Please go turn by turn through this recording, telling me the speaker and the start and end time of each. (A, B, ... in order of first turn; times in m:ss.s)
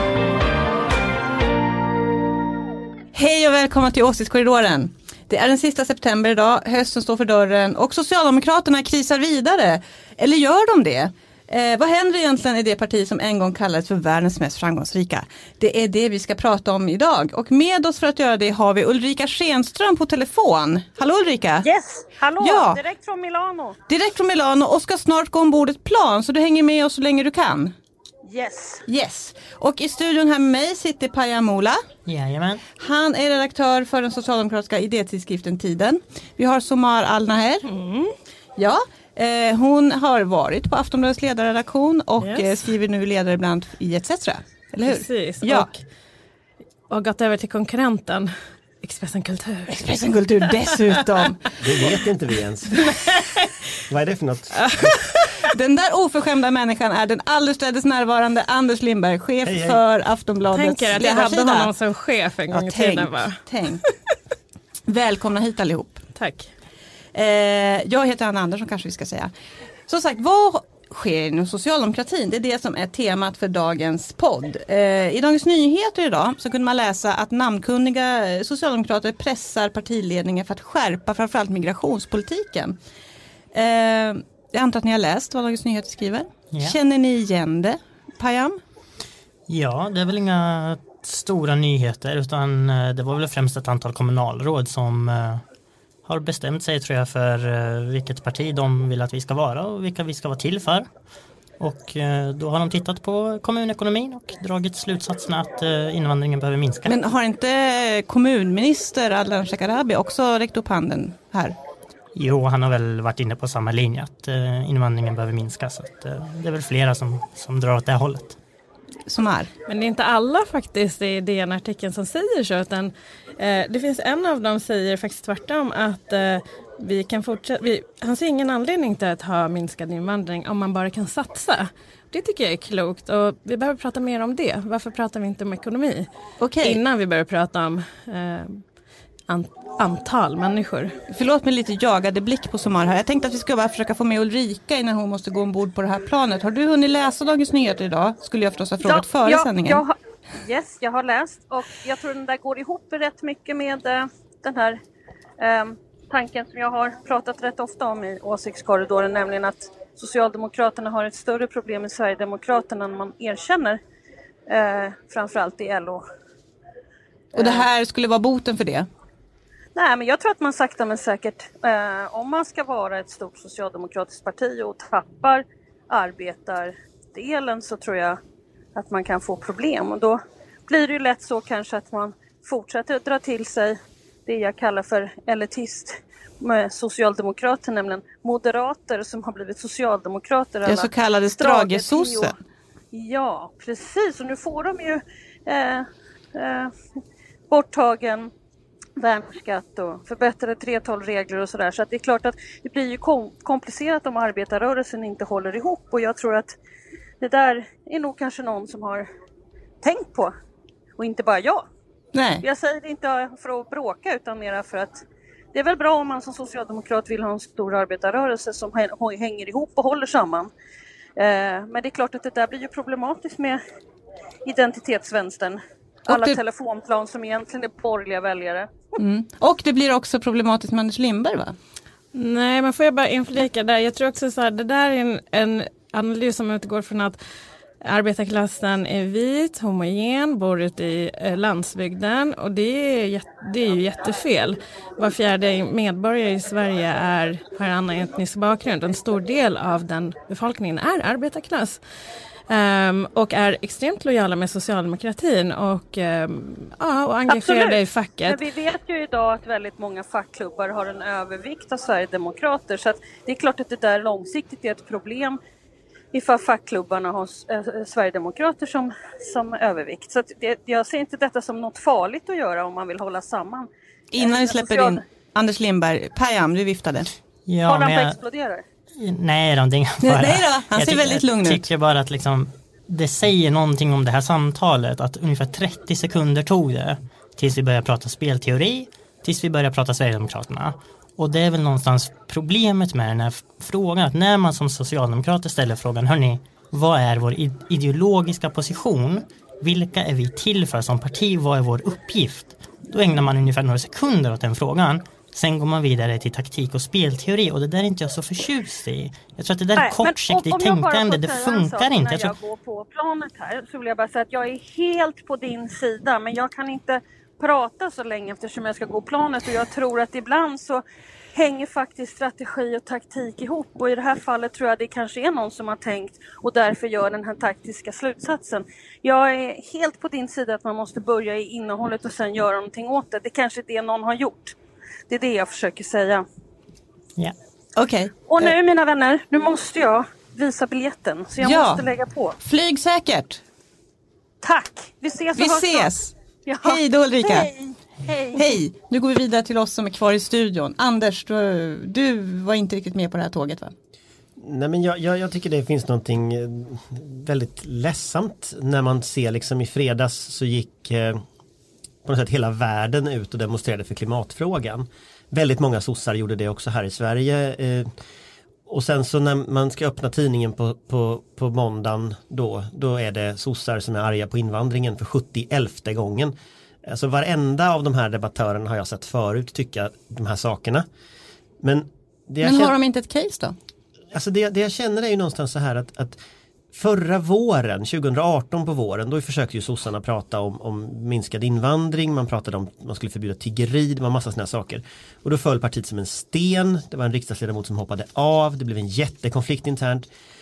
0:03.1-0:21.7 A
0:21.6-0:23.8 B
0:22.4-0:22.8 A
0:23.9-0:27.7 A
0:28.3-0:28.8 B
0:28.9-0:31.8 A
0:32.1-0:32.6 C
0:32.8-0:37.7 A
0:37.7-0:38.1 D
0:38.6-0:45.7 A
0:42.2-0:42.5 D
0:44.9-0:45.8 D
0:46.9-0:49.8 D
0:49.7-0:51.4 A
0:51.6-0:53.0 E
0:52.9-0:53.4 D
0:53.9-0:54.9 E
0:54.7-0:55.3 D
0:55.4-1:01.7 A
0:59.4-0:59.8 E
1:00.5-1:03.9 D
1:02.5-1:03.8 A
1:04.9-1:06.0 A
1:06.2-1:06.5 D
1:07.1-1:09.3 A
1:09.9-1:22.8 A
1:23.5-1:28.6 A
1:26.5-1:26.8 C
1:29.5-1:35.4 C
1:36.0-1:40.9 C
1:41.6-1:47.0 C
1:46.9-1:51.6 A
1:52.2-1:58.4 C
1:59.1-1:59.5 A
1:59.7-2:16.1 D
2:16.4-2:16.8 A
2:16.6-2:18.6 D
2:19.3-2:20.9 D
2:21.1-2:29.8 A
2:28.8-2:34.8 B
2:35.4-2:43.8 B
2:44.5-2:46.0 B
2:47.4-2:48.9 A
2:47.4-2:47.7 B
2:49.8-2:58.2 B
2:58.8-3:12.3 B
3:10.7-3:12.4 A
3:12.9-3:16.7 B
3:17.5-3:18.3 B
3:19.0-3:26.5 B
3:27.2-3:29.1 B
3:29.8-3:30.3 B
3:31.0-3:31.6 B
3:32.1-3:32.4 A
3:32.4-3:35.0 B
3:35.5-3:40.5 B
3:41.2-3:43.6 B
3:44.4-3:48.7 B
3:46.1-3:46.4 A
3:49.0-3:51.6 A
3:52.1-3:57.2 D
3:57.8-4:11.8 D
4:12.5-4:18.4 D
4:17.3-4:25.4 B
4:26.1-4:35.0 B
4:34.1-4:37.1 A
4:37.5-4:38.2 C
4:37.7-4:38.6 B
4:39.0-5:12.4 C
4:40.0-4:41.7 A
5:09.8-5:20.8 B
5:21.3-5:34.6 B
5:35.1-5:36.2 B
5:37.8-5:38.5 A
5:38.3-5:42.4 B
5:41.4-5:41.9 A
5:42.4-5:43.4 A
5:44.4-5:45.9 B
5:45.4-5:47.5 A
5:46.5-5:48.5 B
5:48.3-5:53.7 A
5:54.4-6:01.2 E
6:02.0-6:07.9 E
6:08.7-6:20.9 E
6:21.6-6:22.8 E
6:22.4-6:23.6 A
6:24.1-6:26.2 E
6:26.7-6:40.1 E